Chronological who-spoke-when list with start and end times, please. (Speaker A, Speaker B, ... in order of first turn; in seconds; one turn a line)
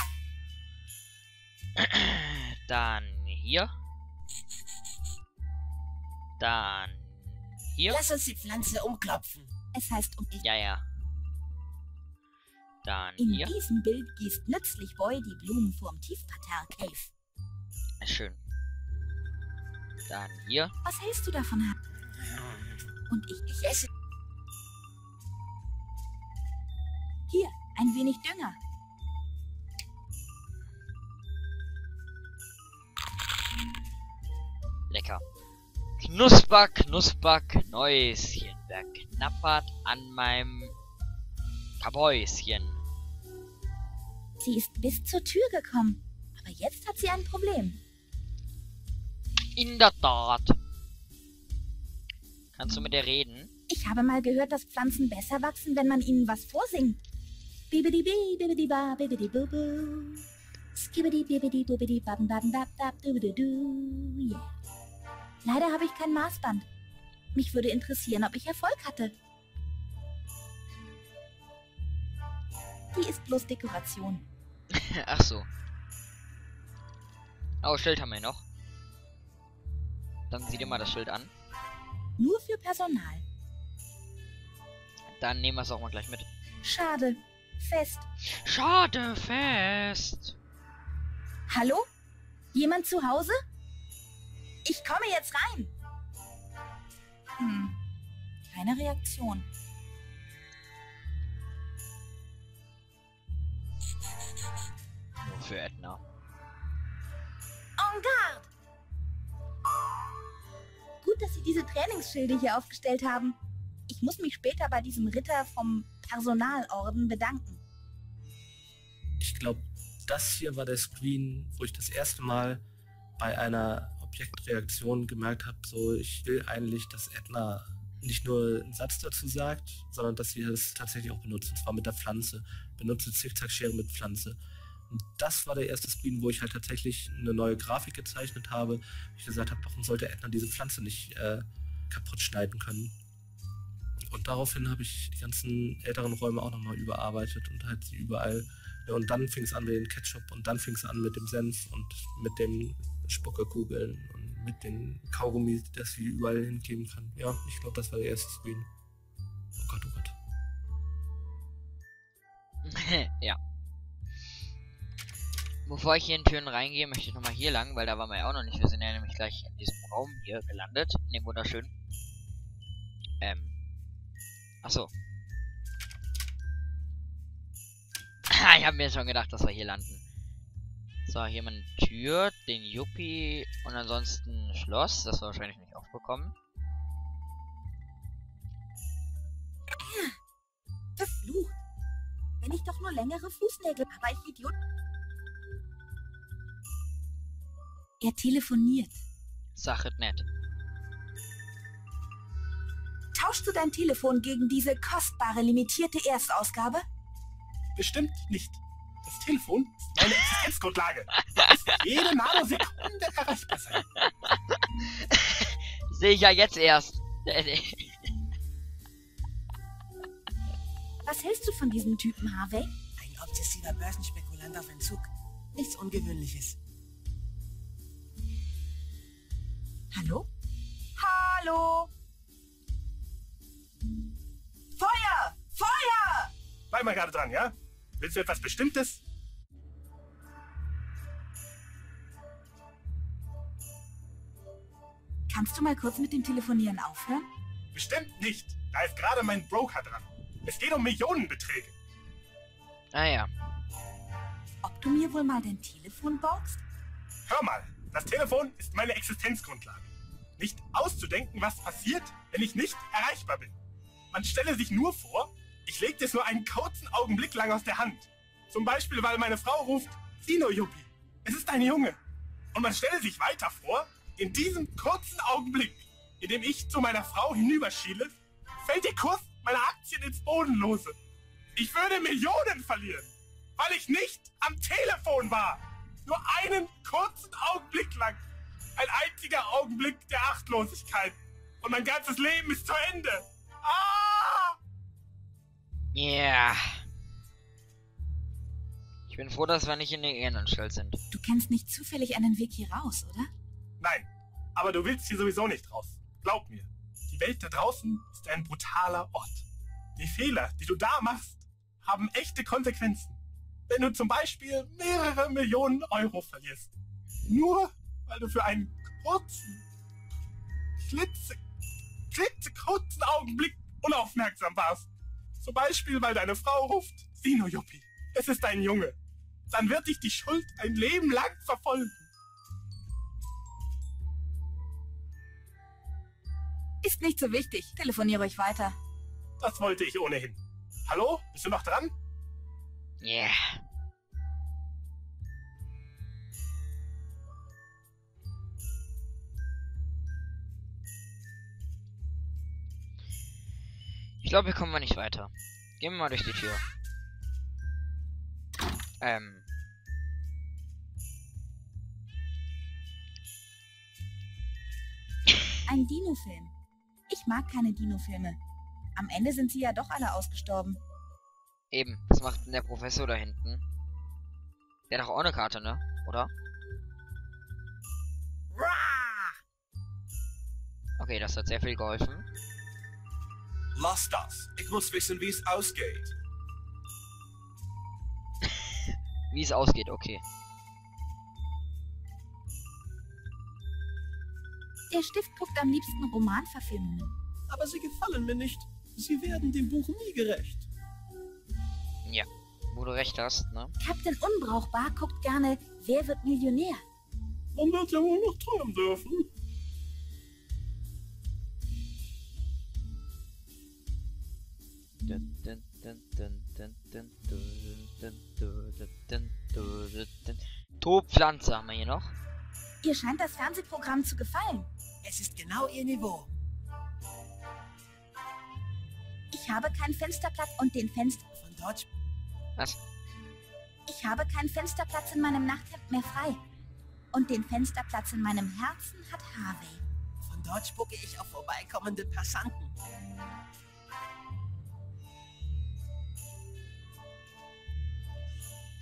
Speaker A: 1.8-3.7
Speaker A: 6.4-8.0
Speaker B: 7.9-9.5
Speaker C: 9.7-10.4
Speaker A: 10.4-10.8
Speaker A: 12.8-13.5
Speaker C: 13.2-17.1
Speaker A: 18.0-18.4
Speaker A: 20.1-20.7
Speaker C: 20.8-21.8
Speaker C: 23.1-23.5
Speaker C: 27.3-28.6
Speaker A: 34.9-35.2
Speaker A: 36.0-40.8
Speaker A: 41.8-42.8
Speaker C: 44.4-47.8
Speaker A: 49.5-50.6
Speaker A: 52.5-53.5
Speaker C: 53.7-57.0
Speaker C: 57.7-60.2
Speaker C: 60.8-64.5
Speaker C: 65.4-66.7
Speaker C: 67.3-69.2
Speaker C: 72.9-74.2
Speaker A: 74.7-75.5
Speaker A: 77.6-78.4
Speaker A: 80.3-81.3
Speaker C: 82.2-83.2
Speaker A: 85.2-86.3
Speaker C: 86.6-88.0
Speaker A: 88.3-90.4
Speaker C: 91.5-91.8
Speaker C: 92.5-93.4
Speaker C: 94.7-95.7
Speaker C: 97.4-97.8
Speaker C: 98.5-99.5
Speaker A: 105.2-106.0
Speaker C: 107.8-108.5
Speaker C: 111.0-113.4
Speaker C: 113.9-117.6
Speaker D: 119.2-122.6
Speaker D: 123.2-142.9
Speaker D: 144.1-158.7
Speaker D: 159.6-160.2
Speaker A: 162.7-163.4
Speaker A: 165.7-171.7
Speaker A: 173.2-173.5
Speaker A: 174.6-174.9
Speaker A: 178.3-180.0
Speaker A: 181.1-186.3
Speaker C: 189.8-190.2
Speaker C: 191.0-191.6
Speaker C: 192.4-194.5
Speaker C: 198.0-199.0
Speaker A: 199.6-200.2
Speaker C: 203.1-206.8
Speaker E: 207.8-213.8
Speaker A: 214.0-218.1
Speaker C: 221.0-222.7
Speaker B: 223.0-226.6
Speaker C: 229.9-230.3
Speaker C: 231.0-231.9
Speaker C: 234.8-236.3
Speaker E: 236.7-239.0
Speaker C: 245.3-247.3
Speaker E: 247.7-251.8
Speaker A: 252.9-253.3
Speaker C: 254.6-256.6
Speaker E: 257.3-263.6
Speaker E: 264.1-272.0
Speaker E: 272.5-281.0
Speaker E: 281.6-288.2
Speaker E: 288.8-294.6
Speaker A: 295.9-296.9
Speaker A: 299.1-301.0
Speaker C: 301.1-303.3
Speaker E: 303.8-309.5
Speaker E: 310.0-316.7
Speaker E: 317.3-319.6
Speaker E: 320.8-321.4
Speaker E: 322.1-324.9
Speaker E: 325.4-329.0
Speaker E: 329.5-332.1
Speaker C: 336.8-338.8
Speaker E: 339.4-341.9
Speaker A: 343.0-343.6
Speaker A: 354.2-356.6
Speaker A: 359.0-359.4
Speaker C: 365.7-366.5
Speaker C: 367.1-368.4
Speaker C: 369.0-370.8
Speaker A: 371.7-373.6
Speaker A: 374.9-376.3
Speaker B: 378.6-379.3
Speaker A: 381.0-382.3
Speaker F: 383.8-386.1
Speaker A: 389.3-390.2
Speaker C: 394.9-397.1
Speaker A: 402.1-403.8
Speaker C: 403.8-406.8
Speaker A: 415.0-422.2
Speaker C: 422.8-424.7
Speaker B: 425.0-426.3
Speaker C: 429.3-431.2
Speaker B: 431.4-431.9
Speaker C: 433.9-436.4
Speaker C: 437.1-439.8
Speaker B: 440.2-442.8